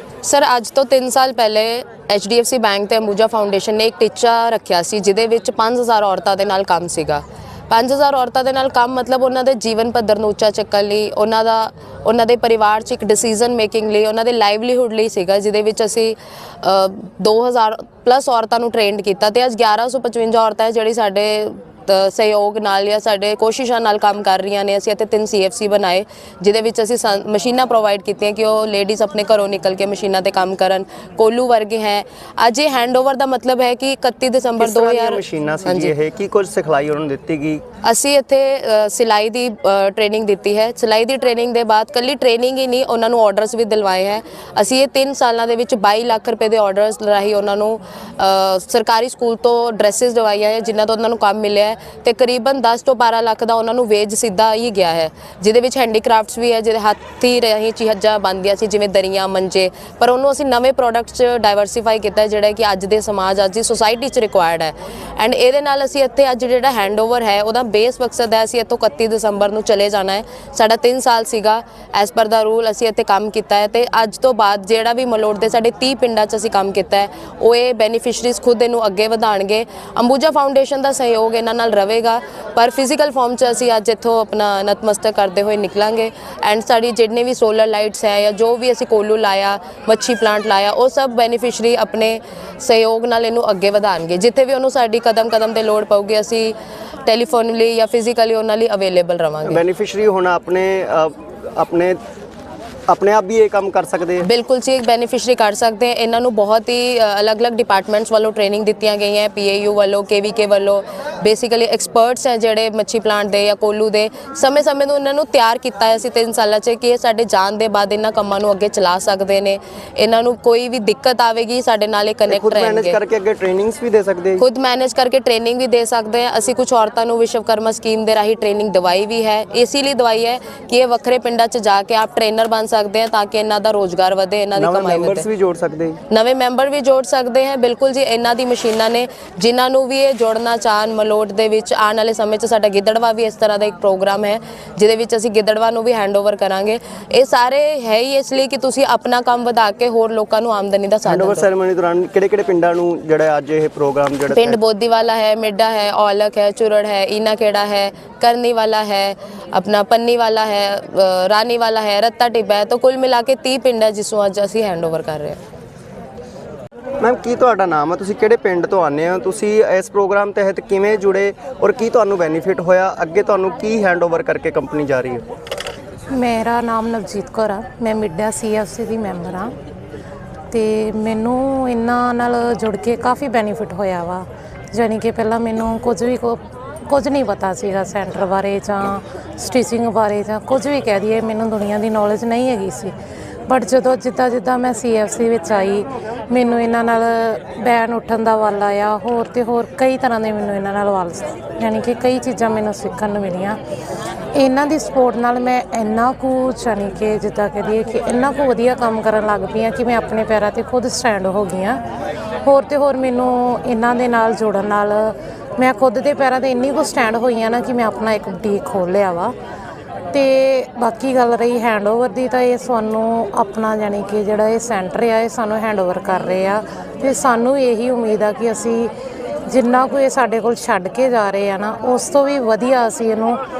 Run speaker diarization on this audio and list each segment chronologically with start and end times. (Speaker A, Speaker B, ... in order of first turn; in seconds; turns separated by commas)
Speaker A: 0.2-35.9, Speaker B: 34.6-37.6, Speaker A: 37.8-99.6, Speaker B: 99.4-102.0, Speaker B: 102.9-104.2, Speaker A: 104.2-123.0, Speaker B: 122.3-124.4, Speaker A: 124.4-135.2, Speaker B: 134.6-136.0, Speaker A: 136.1-151.5, Speaker B: 151.1-154.6, Speaker A: 154.3-165.4, Speaker B: 167.0-175.2, Speaker C: 176.1-179.5, Speaker C: 180.5-192.9, Speaker C: 193.5-203.6, Speaker C: 204.3-211.8, Speaker C: 212.4-219.3, Speaker C: 220.1-228.9, Speaker C: 229.5-233.4